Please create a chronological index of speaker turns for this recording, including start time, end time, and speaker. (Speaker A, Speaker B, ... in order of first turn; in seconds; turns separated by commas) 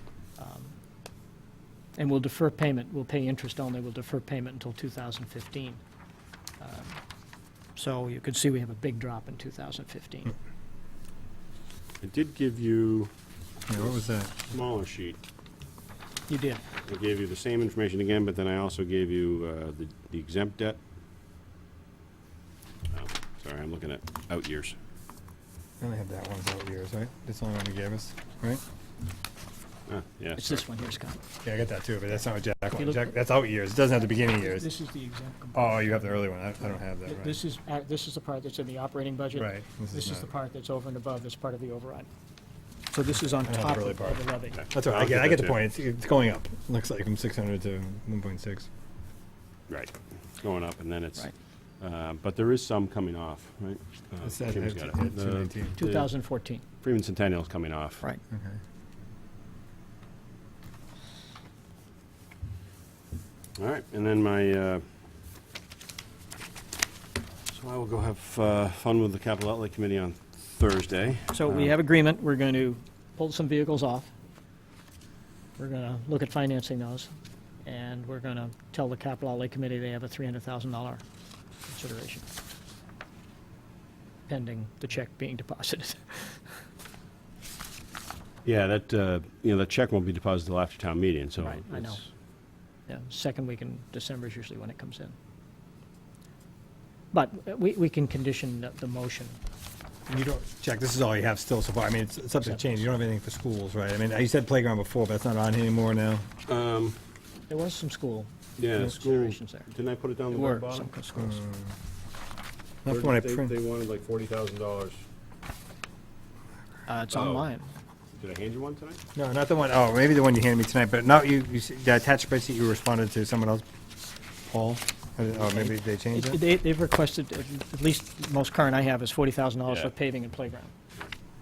Speaker A: 0.4-0.7, Speaker A: 2.0-5.8, Speaker A: 6.6-7.0, Speaker A: 7.8-10.3, Speaker B: 12.0-13.1, Speaker C: 13.7-14.5, Speaker B: 14.5-15.2, Speaker A: 16.3-16.6, Speaker B: 16.9-20.8, Speaker B: 22.9-24.8, Speaker C: 25.8-28.6, Speaker B: 29.9-30.6, Speaker A: 30.4-31.2, Speaker C: 31.4-34.7, Speaker A: 32.8-33.1, Speaker A: 34.3-42.1, Speaker C: 35.5-37.4, Speaker C: 39.4-40.2, Speaker A: 42.9-44.6, Speaker C: 43.4-44.2, Speaker B: 44.5-45.6, Speaker C: 44.7-48.7, Speaker B: 49.7-56.1, Speaker C: 54.2-55.8, Speaker A: 55.8-56.6, Speaker B: 56.8-58.0, Speaker C: 58.3-58.6, Speaker B: 63.6-64.8, Speaker B: 67.5-71.7, Speaker A: 71.3-74.1, Speaker A: 75.6-77.1, Speaker A: 77.7-81.0, Speaker A: 81.7-82.2, Speaker A: 84.3-86.4, Speaker B: 88.5-92.0, Speaker A: 91.4-92.0, Speaker A: 92.9-95.1, Speaker A: 97.1-99.4, Speaker C: 100.1-106.2, Speaker B: 106.5-107.0, Speaker A: 107.5-109.7, Speaker B: 108.6-110.9, Speaker A: 110.3-111.4, Speaker C: 111.2-111.7, Speaker C: 112.8-113.5, Speaker B: 112.9-115.0, Speaker A: 116.9-117.7, Speaker B: 117.1-117.5, Speaker B: 118.2-119.0, Speaker C: 119.2-123.7, Speaker C: 124.5-126.4, Speaker A: 125.5-130.7